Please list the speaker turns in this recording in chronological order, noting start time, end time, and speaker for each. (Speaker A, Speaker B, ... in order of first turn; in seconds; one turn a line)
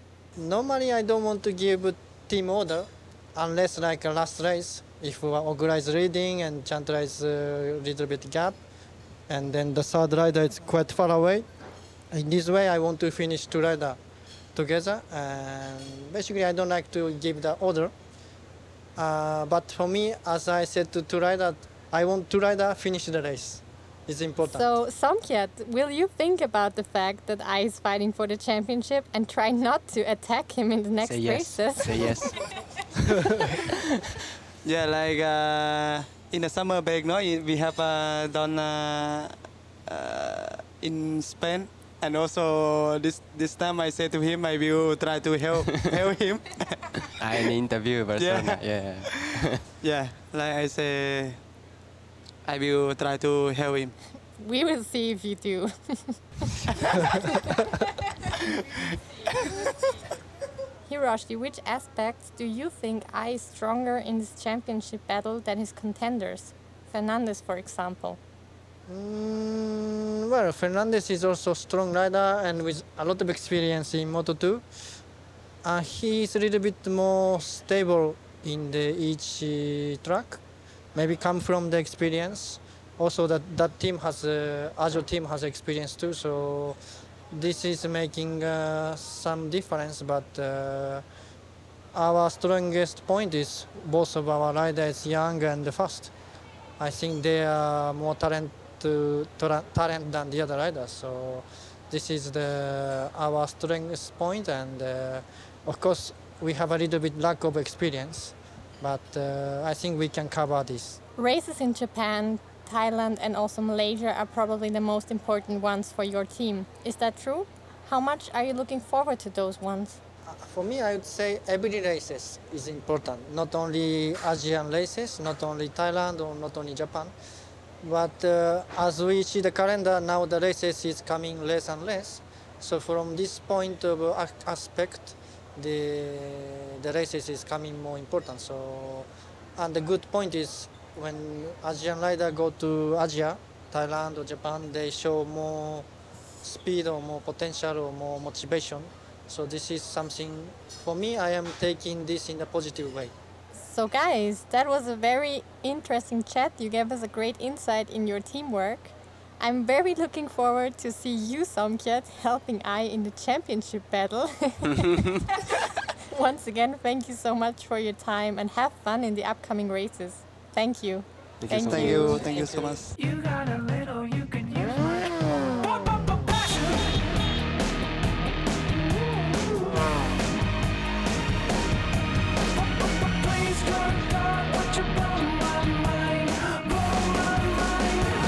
Speaker A: 0.3-8.6
Speaker A: 9.3-11.4
Speaker A: 12.1-14.0
Speaker A: 14.5-17.9
Speaker A: 19.0-24.8
Speaker B: 24.4-32.0
Speaker C: 31.0-32.4
Speaker D: 34.6-39.3
Speaker D: 39.9-47.0
Speaker C: 47.2-49.7
Speaker D: 48.2-49.1
Speaker D: 49.8-51.4
Speaker D: 52.5-53.9
Speaker B: 54.3-56.5
Speaker B: 57.0-57.3
Speaker B: 60.9-68.2
Speaker A: 68.9-74.6
Speaker A: 75.6-80.4
Speaker A: 80.9-86.8
Speaker A: 87.3-91.0
Speaker A: 91.9-96.1
Speaker A: 96.8-111.0
Speaker B: 111.2-120.0
Speaker A: 120.3-127.1
Speaker A: 127.8-145.9
Speaker A: 146.4-153.1
Speaker B: 153.5-172.6
Speaker C: 171.4-172.2
Speaker D: 171.7-172.9
Speaker E: 172.9-177.1
Speaker E: 183.2-187.9